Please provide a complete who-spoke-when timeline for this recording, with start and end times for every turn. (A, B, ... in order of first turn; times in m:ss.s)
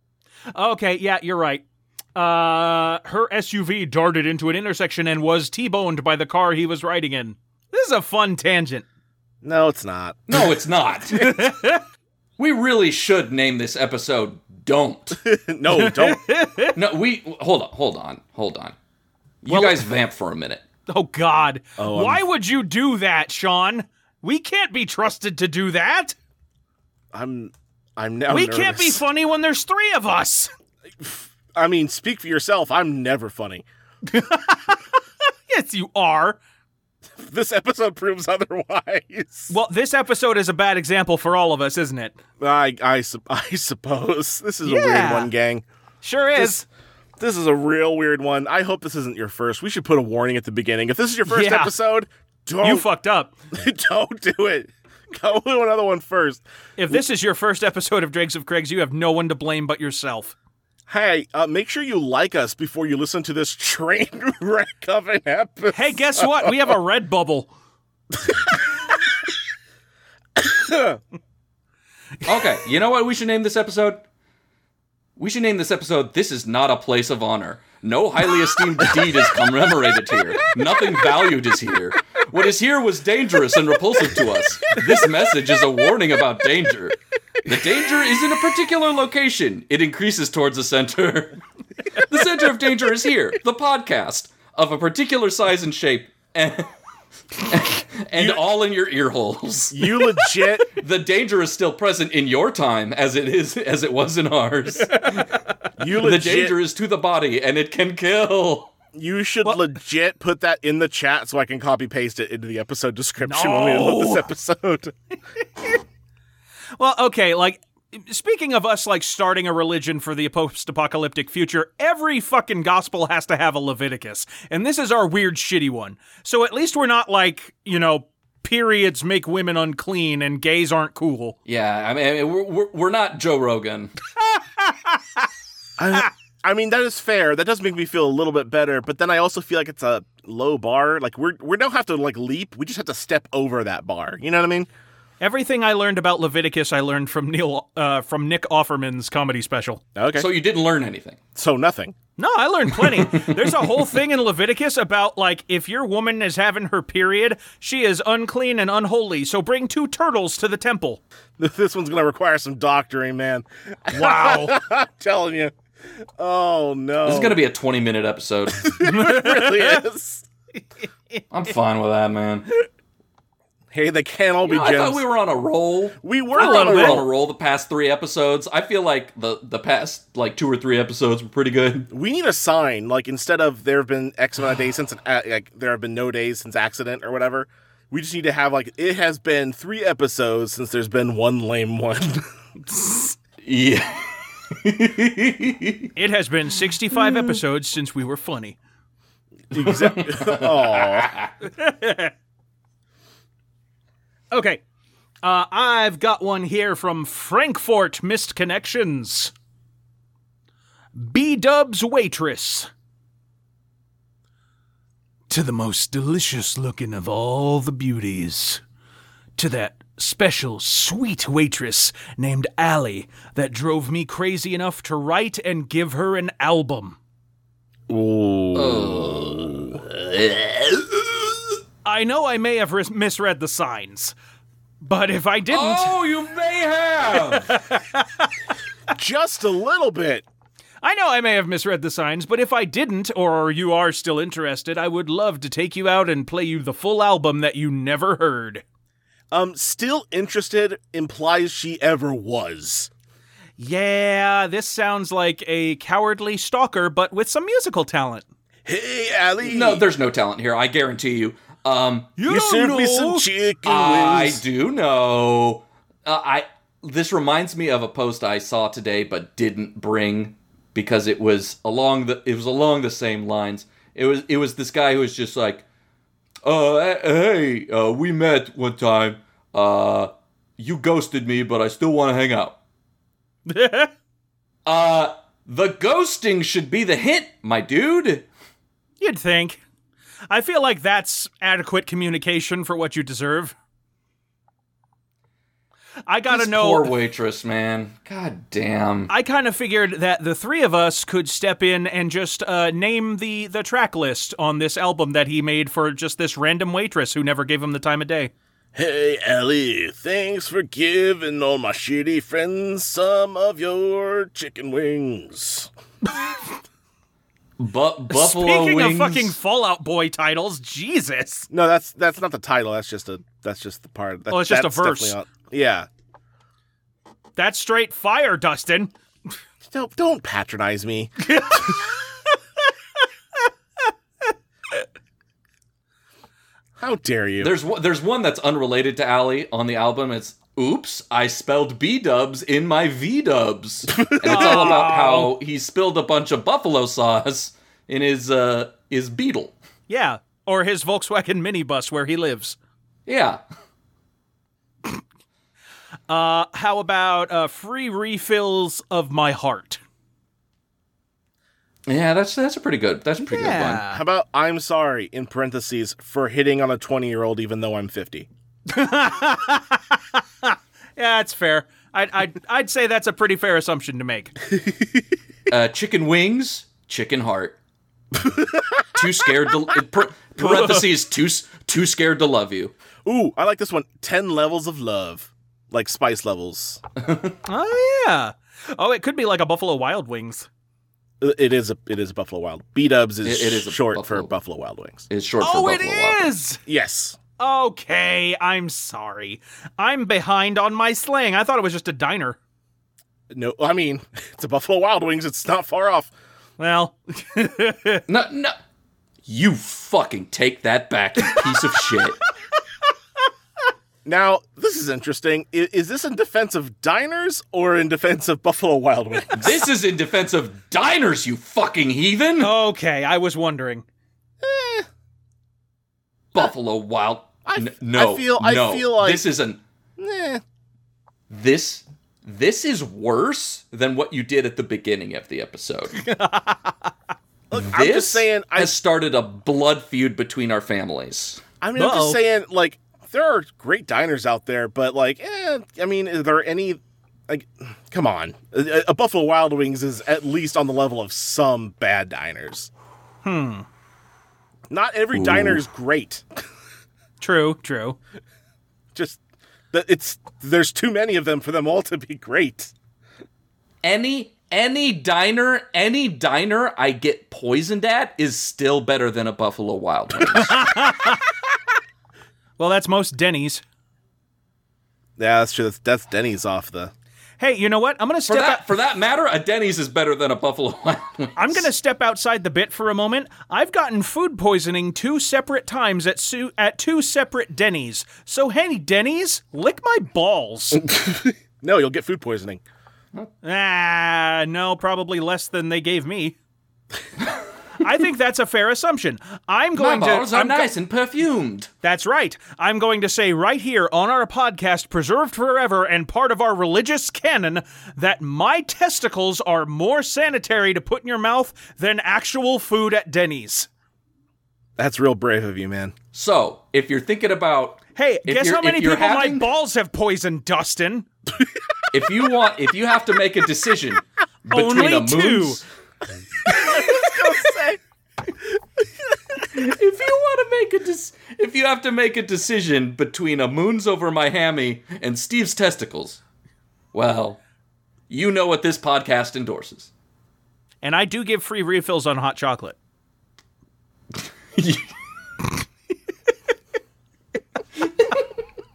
0:00.5-0:08.8 A
0:09.4-0:10.5 B
0:10.3-0:11.5 C
0:11.1-0:11.8 A
0:12.4-0:15.2 C
0:15.2-0:16.2 B
0:15.7-0:16.8 A
0:16.8-0:18.8 C
0:19.4-0:20.6 C
0:19.5-0:19.9 A
0:20.9-0:26.2 A
0:21.8-0:22.2 B
0:27.1-0:29.0 B
0:28.3-0:30.5 A
0:31.0-0:33.6 B
0:34.1-0:36.4 A
0:37.2-0:39.5 B
0:39.5-0:42.2 A
0:42.4-0:45.6 B
0:44.6-0:45.3 A
0:46.0-0:46.7 A
0:47.2-0:52.9 B
0:51.3-0:51.7 A
0:52.6-0:53.4 A
0:53.5-0:57.0 B
0:56.8-1:00.4 A
1:00.9-1:06.6 B
1:05.7-1:07.5 A
1:08.1-1:08.6 B
1:10.4-1:11.0 B
1:12.2-1:14.0 C
1:15.2-1:31.4 C
1:31.9-1:36.7 C
1:37.4-1:40.0 C
1:38.1-1:38.4 B
1:39.7-1:40.8 B
1:40.7-1:48.7 C
1:45.8-1:46.6 B
1:48.9-1:54.9 B
1:53.2-1:54.3 A
1:56.8-2:11.4 A
2:11.5-2:13.9 C
2:14.3-2:15.2 A
2:15.8-2:24.7 B
2:25.2-2:29.8 A
2:30.0-2:30.3 B
2:30.2-2:31.2 C
2:31.4-2:32.0 B
2:32.2-2:41.0 A
2:32.8-2:33.9 C
2:41.4-2:45.5 B
2:44.0-2:44.6 A
2:46.2-2:47.4 B
2:47.0-2:48.8 C
2:48.6-2:50.3 B
2:48.8-2:49.8 A
2:51.3-2:52.5 C
2:53.7-2:55.0 B
2:54.4-3:01.9 C
2:56.0-2:57.1 B
2:56.4-2:57.0 A
3:01.9-3:12.2 B
3:12.7-3:13.1 A
3:13.4-3:15.9 C
3:16.0-3:18.6 A
3:19.5-3:21.1 B
3:19.6-3:21.3 C
3:21.4-3:22.1 A
3:24.3-3:24.6 A
3:25.2-3:29.3 A
3:31.0-3:32.7 A
3:35.3-3:38.6 A
3:39.4-3:47.0 A
3:47.9-3:49.8 B
3:48.6-3:51.3 C
3:51.8-3:54.2 A
3:54.8-3:56.0 A
3:55.5-3:57.6 C
3:57.2-3:58.3 A
3:59.0-4:00.2 B
4:00.8-4:08.6 A
4:09.3-4:12.9 B
4:13.6-4:18.3 A
4:18.7-4:19.9 B
4:19.4-4:22.1 C
4:22.2-4:23.3 A
4:22.3-4:24.4 B
4:23.6-4:35.6 C
4:36.4-4:42.6 C
4:43.5-4:43.9 A
4:44.7-4:48.3 C
4:49.0-4:49.6 A
4:50.3-4:53.6 A
4:56.1-4:56.9 A
4:56.3-4:59.1 C
4:59.1-5:08.3 A
5:08.8-5:15.7 B
5:17.6-5:19.4 C
5:18.1-5:21.5 A
5:21.5-5:25.9 B
5:24.3-5:25.2 A
5:27.4-5:28.9 A
5:29.6-5:31.8 B
5:31.3-5:31.8 A
5:36.8-5:37.6 B
5:37.4-5:49.6 C
5:44.0-5:44.8 B
5:44.2-5:45.3 A
5:49.9-5:52.6 A
5:53.1-5:53.4 C
5:56.1-5:59.8 A
6:01.9-6:03.8 C
6:03.3-6:04.0 A
6:03.9-6:08.3 B
6:08.7-6:14.4 A
6:15.5-6:17.6 C
6:18.2-6:18.6 B
6:18.9-6:22.8 C
6:20.4-6:20.8 A
6:23.0-6:26.8 B
6:27.0-6:27.4 C
6:27.4-6:30.5 A
6:31.2-6:35.0 B
6:33.2-6:34.3 C
6:35.1-6:36.3 C
6:35.4-6:36.6 A
6:36.7-6:37.2 B
6:37.4-6:42.4 A
6:43.3-6:46.1 B
6:46.6-6:48.0 A
6:48.1-6:48.5 C
6:49.3-6:52.2 C
6:54.0-6:59.6 B
6:59.3-7:02.5 C
7:02.4-7:03.8 A
7:04.4-7:04.9 B
7:06.3-7:09.6 C
7:07.4-7:09.2 B
7:10.0-7:10.4 B
7:11.3-7:16.0 C
7:16.0-7:16.9 A
7:17.5-7:18.8 B
7:17.6-7:21.4 C
7:21.6-7:32.7 B
7:21.8-7:22.2 A
7:33.2-7:33.7 A
7:34.7-7:36.2 B
7:35.1-7:35.6 C
7:37.2-7:38.0 A
7:38.9-7:39.2 B
7:39.7-7:42.7 B
7:43.8-7:50.7 C
7:50.2-7:51.3 A
7:52.6-7:53.6 A
7:55.2-7:56.9 B
7:57.4-7:58.7 A
7:58.3-8:01.6 C
8:01.4-8:10.8 A
8:10.8-8:12.6 B
8:13.4-8:16.4 A
8:17.8-8:20.7 A
8:19.8-8:21.7 C
8:21.8-8:33.7 A
8:34.8-8:36.0 B
8:36.1-8:39.5 C
8:38.0-8:41.1 A
8:41.9-8:45.6 C
8:44.5-8:45.6 A
8:46.5-8:47.8 B
8:49.4-8:56.2 C
8:56.9-8:57.4 C
8:58.1-8:59.9 C
9:00.8-9:02.8 A
9:04.6-9:04.9 C